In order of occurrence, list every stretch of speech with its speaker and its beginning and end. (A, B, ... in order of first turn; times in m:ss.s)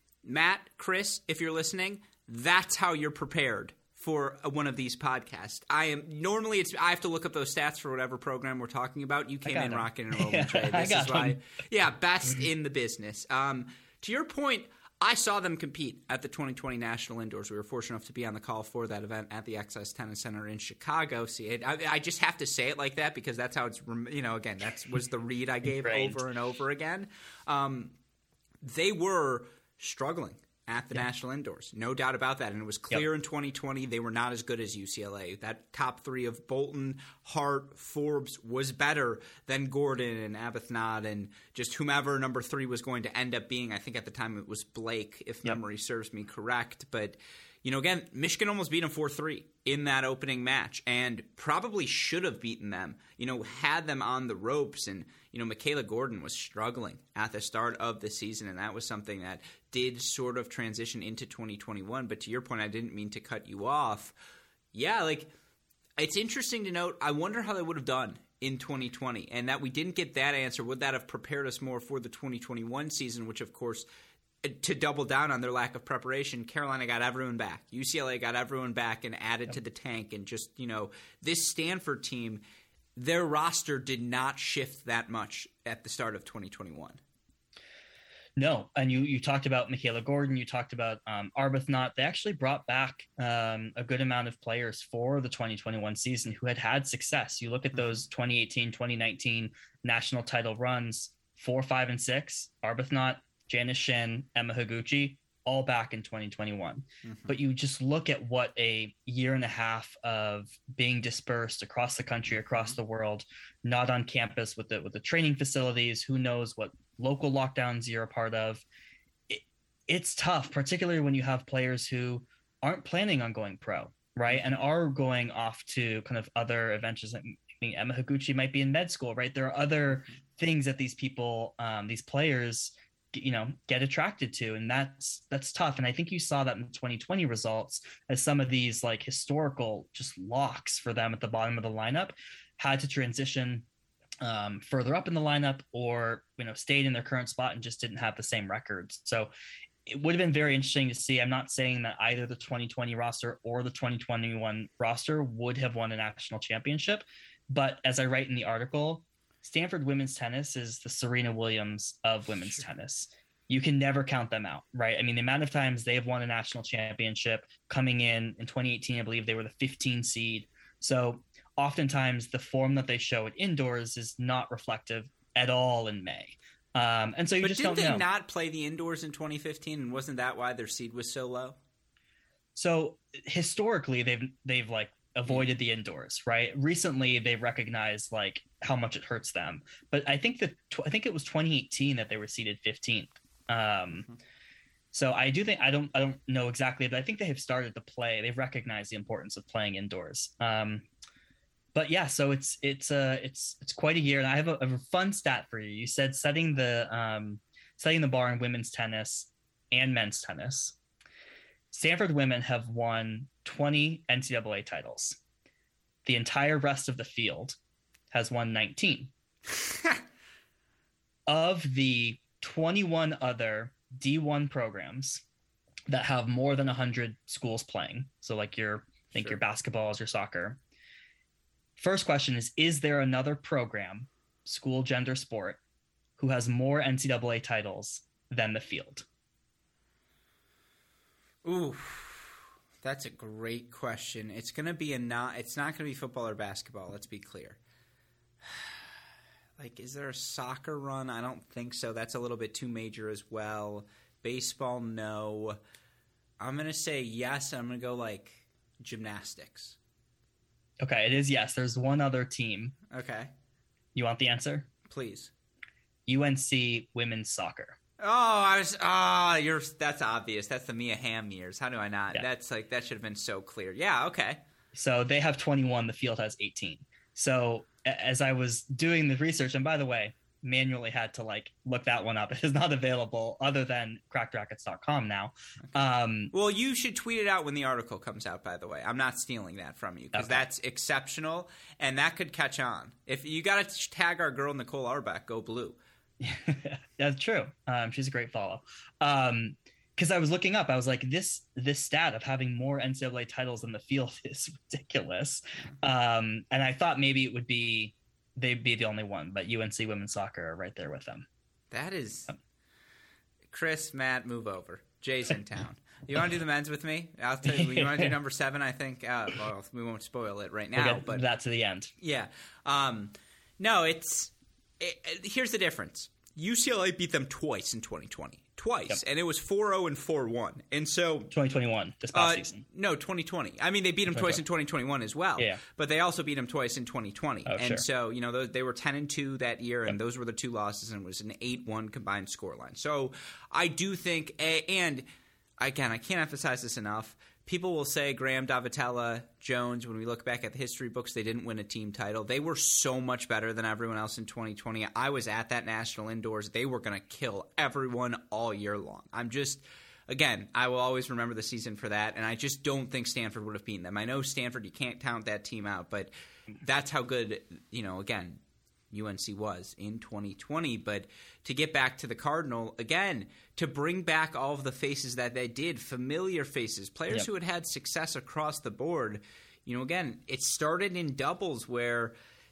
0:00.2-0:27.9 A
0:09.4-0:11.4 B
0:25.7-0:26.2 B
0:28.6-1:04.1 A
1:04.7-1:05.3 A
1:06.0-1:13.8 A
1:14.4-1:22.4 A
1:23.0-1:27.0 A
1:28.4-1:58.6 B
1:37.7-1:38.0 A
1:47.0-1:47.4 A
1:52.5-1:52.8 A
1:59.3-2:23.6 B
2:24.2-2:29.3 B
2:29.9-2:58.0 B
2:57.4-3:01.6 A
3:02.5-3:14.1 B
3:14.9-3:20.8 B
3:21.7-3:30.7 B
3:31.7-3:35.2 B
3:36.0-3:37.6 B
3:38.1-3:39.1 B
3:39.6-3:40.0 A
3:41.3-3:45.2 B
3:45.9-3:50.6 B
3:51.8-3:55.6 B
3:56.2-3:59.0 B
4:01.4-4:07.6 A
4:08.4-4:08.9 A
4:09.6-4:15.6 A
4:16.4-4:19.8 A
4:20.8-4:22.8 B
4:22.9-4:23.3 A
4:23.9-4:24.7 B
4:24.8-4:25.3 A
4:26.1-4:27.8 B
4:28.0-4:34.4 A
4:34.7-4:46.3 B
4:45.6-4:55.8 A
4:50.1-4:50.4 B
4:56.2-5:11.2 B
5:11.7-5:12.3 A
5:13.5-5:21.2 A
5:17.4-5:18.1 B
5:20.8-5:21.9 B
5:22.0-5:31.3 A
5:31.3-5:32.6 B
5:32.1-5:45.0 A
5:34.1-5:34.4 B
5:35.4-5:35.6 B
5:37.4-5:37.8 B
5:45.6-6:22.1 A